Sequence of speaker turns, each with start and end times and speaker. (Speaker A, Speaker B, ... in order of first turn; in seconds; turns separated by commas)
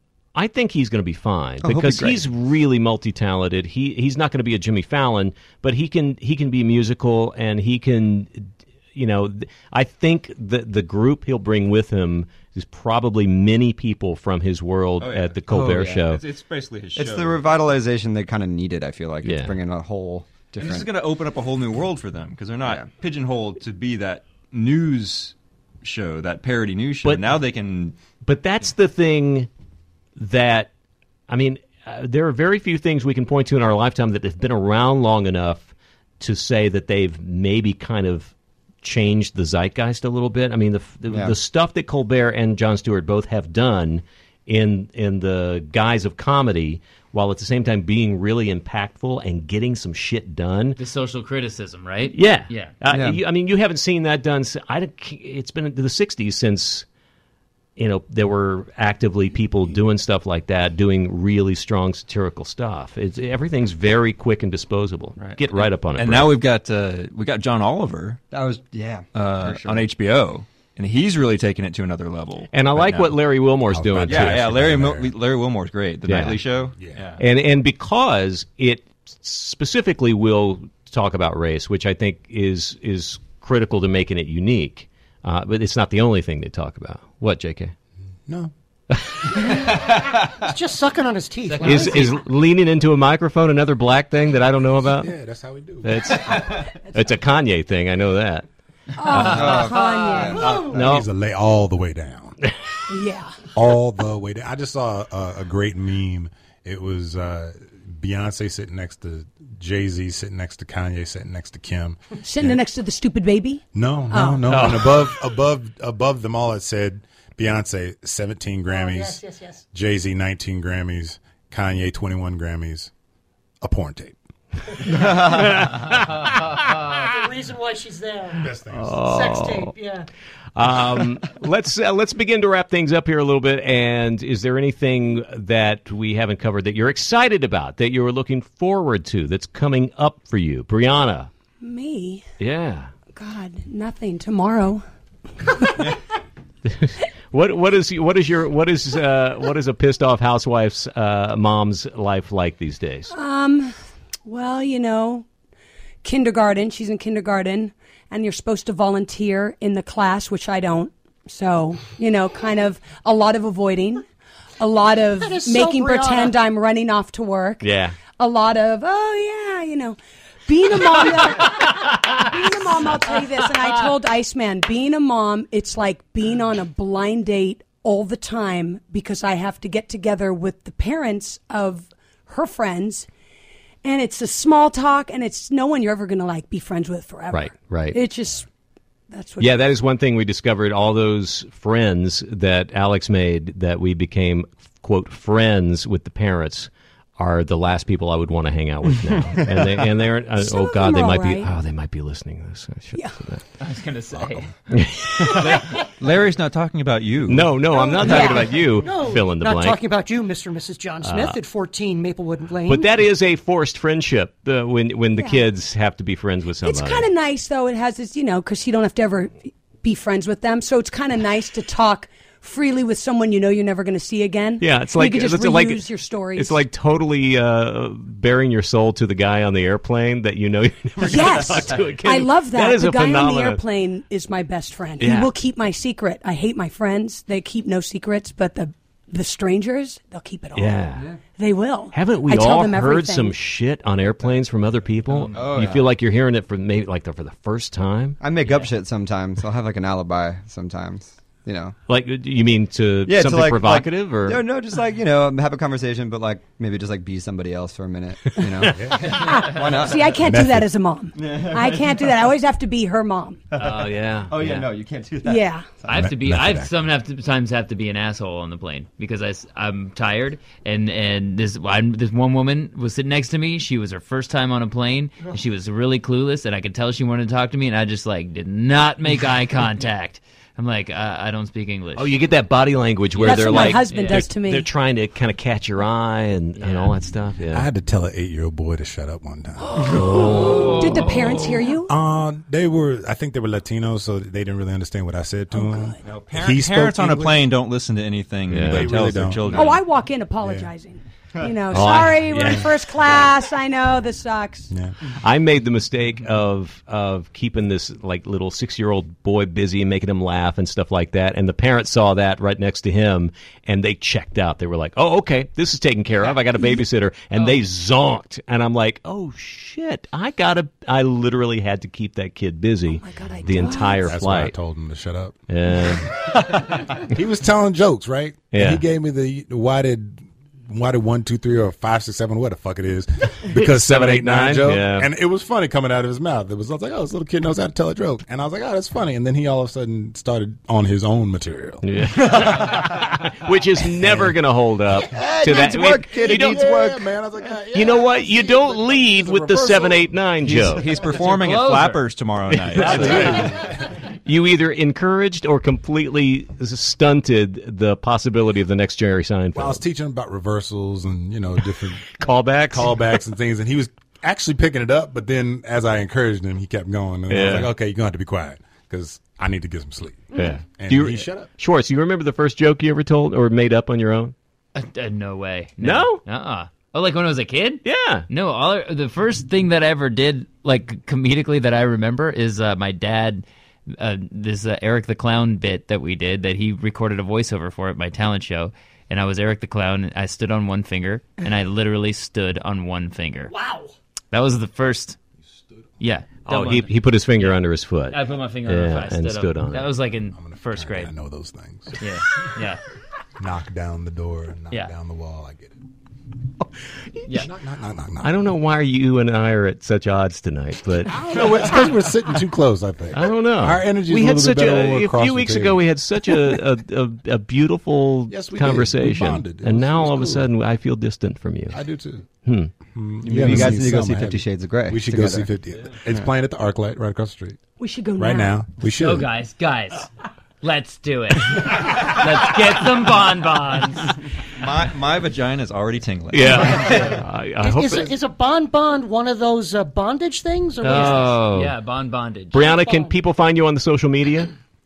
Speaker A: 0.3-16.2, Speaker B: 1.6-2.3, Speaker C: 15.0-17.5, Speaker B: 15.5-16.0, Speaker B: 16.9-20.9, Speaker A: 19.2-19.5, Speaker C: 20.6-27.9, Speaker A: 27.0-27.4, Speaker A: 28.2-29.5, Speaker A: 30.2-30.7, Speaker A: 31.3-50.8, Speaker B: 41.1-41.4, Speaker D: 50.8-52.7, Speaker A: 52.1-56.9, Speaker B: 52.9-53.2, Speaker A: 57.8-66.4, Speaker C: 65.2-68.2, Speaker B: 68.3-69.9, Speaker C: 69.1-73.2, Speaker A: 72.5-74.5, Speaker E: 73.7-75.1, Speaker C: 74.1-77.2, Speaker A: 76.1-76.4, Speaker E: 76.8-77.1, Speaker A: 77.2-87.7, Speaker E: 88.3-88.5, Speaker A: 88.9-89.6, Speaker F: 89.5-92.2, Speaker D: 91.5-92.1, Speaker A: 91.6-95.1, Speaker E: 94.9-96.4, Speaker A: 95.8-98.5, Speaker G: 99.0-100.6, Speaker B: 99.1-100.7, Speaker A: 99.1-99.4, Speaker F: 100.3-100.8, Speaker E: 100.4-102.4, Speaker A: 100.7-101.1, Speaker G: 102.9-103.4, Speaker E: 103.5-112.6, Speaker G: 112.2-115.0, Speaker E: 113.8-119.2, Speaker A: 114.5-114.9, Speaker F: 118.7-119.6, Speaker E: 119.7-122.9, Speaker E: 123.6-124.2, Speaker A: 124.9-126.4, Speaker F: 126.3-130.1, Speaker E: 128.4-129.0, Speaker A: 128.7-129.8, Speaker A: 130.6-141.3, Speaker G: 141.6-142.2, Speaker A: 142.4-142.9, Speaker G: 143.1-144.8, Speaker G: 145.4-146.0, Speaker A: 146.7-153.1, Speaker G: 153.1-153.7, Speaker G: 154.2-155.2, Speaker G: 156.0-164.1, Speaker G: 164.6-183.1, Speaker F: 165.2-166.4, Speaker A: 167.6-168.0, Speaker G: 183.8-188.5, Speaker A: 187.3-188.0, Speaker G: 189.1-189.6, Speaker A: 189.4-203.4, Speaker G: 200.4-201.5, Speaker D: 203.6-204.5, Speaker A: 204.7-205.5, Speaker C: 205.2-207.6, Speaker A: 207.3-209.8, Speaker F: 207.7-212.9, Speaker G: 207.8-208.5, Speaker A: 211.0-211.4, Speaker A: 212.7-217.1, Speaker G: 215.2-215.4, Speaker G: 216.6-226.6, Speaker A: 224.6-233.6, Speaker G: 231.0-240.8, Speaker A: 235.0-235.3, Speaker A: 240.6-241.1, Speaker G: 241.4-243.4, Speaker A: 241.9-248.2, Speaker B: 245.3-245.9, Speaker B: 248.2-251.8, Speaker A: 251.9-254.4, Speaker B: 253.1-260.3, Speaker E: 258.7-259.1, Speaker G: 259.0-263.4, Speaker E: 260.2-260.7, Speaker B: 261.2-262.1, Speaker B: 263.5-266.1, Speaker A: 263.6-264.7, Speaker G: 265.2-265.7, Speaker D: 265.9-282.1, Speaker E: 265.9-266.9, Speaker A: 281.9-287.7, Speaker D: 283.1-284.3, Speaker G: 283.2-284.7, Speaker D: 286.6-286.9, Speaker E: 287.5-290.4, Speaker A: 289.9-291.0, Speaker D: 289.9-291.8, Speaker G: 289.9-291.9, Speaker E: 291.9-297.5, Speaker G: 295.5-295.9, Speaker C: 296.0-299.8, Speaker A: 298.5-298.9, Speaker E: 298.5-299.8, Speaker G: 299.5-304.7, Speaker E: 300.4-300.7, Speaker A: 301.7-302.7, Speaker E: 301.9-302.7, Speaker A: 305.2-324.6, Speaker G: 323.0-324.1, Speaker F: 323.5-323.8, Speaker E: 324.1-342.9, Speaker A: 325.5-326.1, Speaker A: 328.5-328.8, Speaker A: 333.5-335.1, Speaker A: 341.8-346.6, Speaker E: 344.0-344.3, Speaker B: 345.1-347.5, Speaker E: 346.2-350.1, Speaker A: 347.7-350.9, Speaker C: 350.4-353.5, Speaker D: 351.1-352.2, Speaker A: 352.5-353.7, Speaker E: 352.8-353.7, Speaker A: 354.2-359.8, Speaker E: 359.6-371.5, Speaker A: 362.1-363.0, Speaker A: 367.3-367.7, Speaker A: 370.3-374.4, Speaker D: 374.8-393.6, Speaker A: 375.8-376.2, Speaker A: 377.8-378.3, Speaker D: 394.3-395.2, Speaker D: 396.0-401.1, Speaker A: 396.5-399.9, Speaker E: 400.3-402.0, Speaker D: 402.0-402.8, Speaker E: 403.4-405.8, Speaker D: 407.3-407.5, Speaker E: 407.3-408.4, Speaker A: 408.2-411.2, Speaker E: 411.1-415.8, Speaker A: 413.1-421.8, Speaker E: 418.3-420.5, Speaker E: 421.7-422.3, Speaker A: 422.4-422.7, Speaker E: 422.9-427.6, Speaker B: 423.2-425.5, Speaker A: 423.4-423.7, Speaker G: 427.8-428.6, Speaker E: 428.2-429.3, Speaker D: 428.8-430.1, Speaker D: 430.6-434.2, Speaker C: 434.5-437.0, Speaker A: 436.3-438.1, Speaker F: 436.5-441.4, Speaker A: 440.8-441.7, Speaker D: 440.9-442.6, Speaker A: 442.5-444.5, Speaker F: 442.6-443.2